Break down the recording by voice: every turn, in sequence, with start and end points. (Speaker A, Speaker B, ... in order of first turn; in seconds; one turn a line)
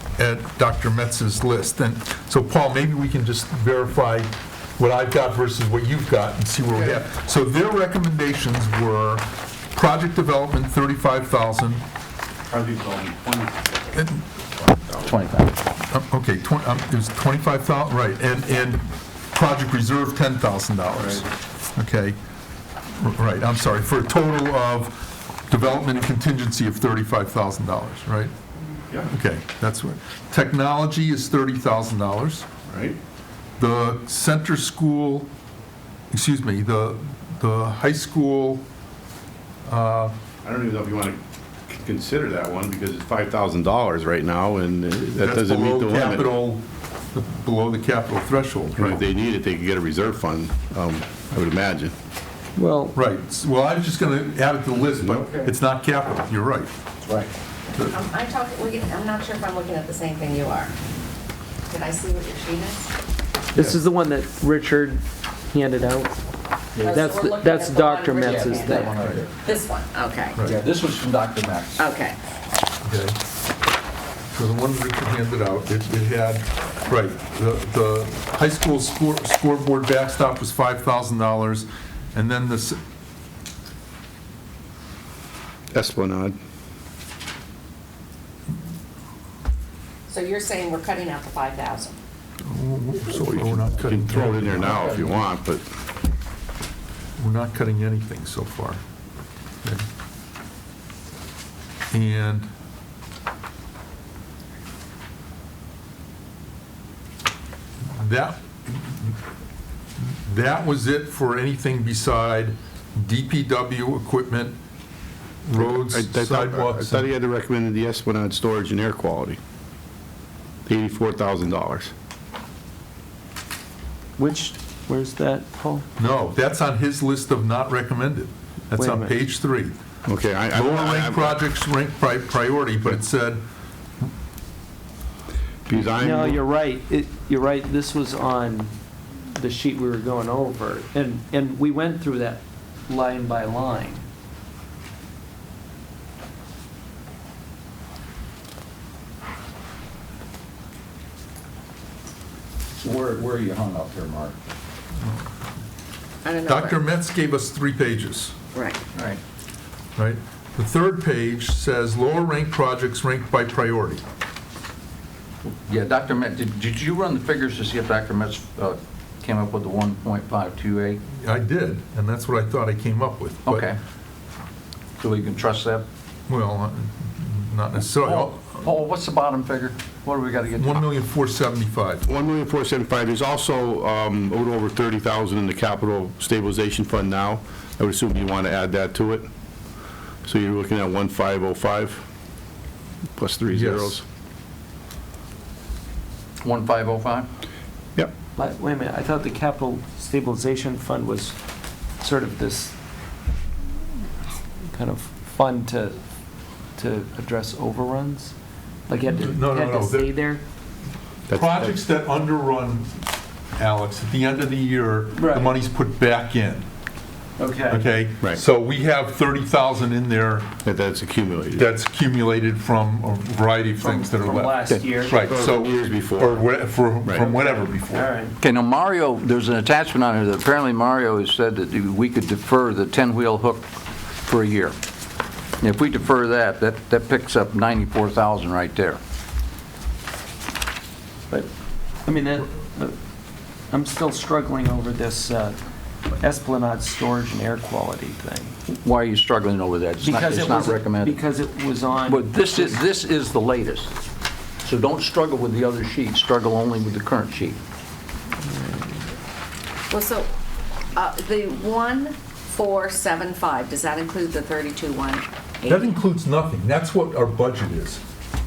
Speaker A: 0.2-11.8
Speaker B: 12.5-13.7
Speaker A: 13.9-14.2
Speaker C: 15.0-15.6
Speaker A: 15.9-22.2
Speaker A: 23.0-28.3
Speaker A: 29.1-32.5
Speaker B: 32.7-33.0
Speaker A: 33.6-35.3
Speaker A: 36.1-38.6
Speaker A: 39.7-40.1
Speaker B: 40.4-46.3
Speaker A: 45.2-49.0
Speaker B: 48.8-51.9
Speaker D: 52.6-53.0
Speaker A: 53.0-56.7
Speaker B: 55.0-55.3
Speaker E: 57.8-60.7
Speaker E: 61.7-62.9
Speaker D: 63.5-66.1
Speaker E: 66.8-68.9
Speaker D: 66.9-69.0
Speaker C: 68.2-69.4
Speaker E: 69.4-70.5
Speaker C: 70.5-71.8
Speaker E: 71.8-72.2
Speaker A: 72.8-73.2
Speaker A: 74.3-82.8
Speaker B: 85.7-86.4
Speaker E: 90.1-92.0
Speaker A: 92.5-95.0
Speaker B: 93.2-95.6
Speaker C: 94.6-95.1
Speaker A: 97.2-98.8
Speaker A: 101.9-102.5
Speaker A: 107.9-109.2
Speaker A: 110.0-114.6
Speaker A: 115.5-117.1
Speaker B: 115.6-119.4
Speaker B: 120.7-121.9
Speaker D: 124.2-125.9
Speaker A: 126.0-129.8
Speaker D: 128.8-129.2
Speaker B: 130.1-131.4
Speaker A: 130.5-133.4
Speaker B: 135.7-136.4
Speaker D: 135.8-138.8
Speaker D: 139.3-144.1
Speaker C: 152.8-154.3
Speaker E: 156.2-156.8
Speaker A: 156.5-158.3
Speaker E: 158.5-158.8
Speaker C: 158.9-159.2
Speaker A: 160.0-164.0
Speaker C: 165.5-171.0
Speaker A: 171.1-173.7
Speaker C: 173.5-173.8
Speaker C: 175.0-175.9
Speaker A: 176.3-178.6
Speaker C: 178.0-180.9
Speaker A: 180.6-182.1
Speaker B: 182.1-189.3
Speaker B: 190.2-192.0
Speaker B: 193.2-194.0
Speaker A: 193.5-194.0
Speaker C: 196.4-197.3
Speaker D: 198.4-201.4
Speaker D: 202.0-202.8
Speaker D: 204.7-206.0
Speaker D: 206.8-208.3
Speaker D: 208.9-210.4
Speaker A: 209.1-210.1
Speaker B: 211.3-211.8
Speaker A: 211.3-213.1
Speaker A: 213.6-216.7
Speaker D: 215.2-215.5
Speaker D: 217.4-217.9
Speaker A: 217.7-220.5
Speaker B: 220.6-221.7
Speaker A: 221.6-228.1
Speaker D: 223.8-225.1
Speaker B: 224.7-226.4
Speaker D: 227.2-228.3
Speaker C: 228.4-234.8
Speaker C: 235.6-239.0
Speaker D: 242.1-243.0
Speaker D: 243.7-245.6
Speaker D: 246.1-248.6
Speaker C: 248.7-251.2
Speaker D: 250.0-252.8
Speaker C: 252.1-253.9
Speaker C: 254.6-257.6
Speaker D: 258.5-259.0
Speaker E: 259.9-260.3
Speaker E: 260.9-266.0
Speaker A: 265.7-268.0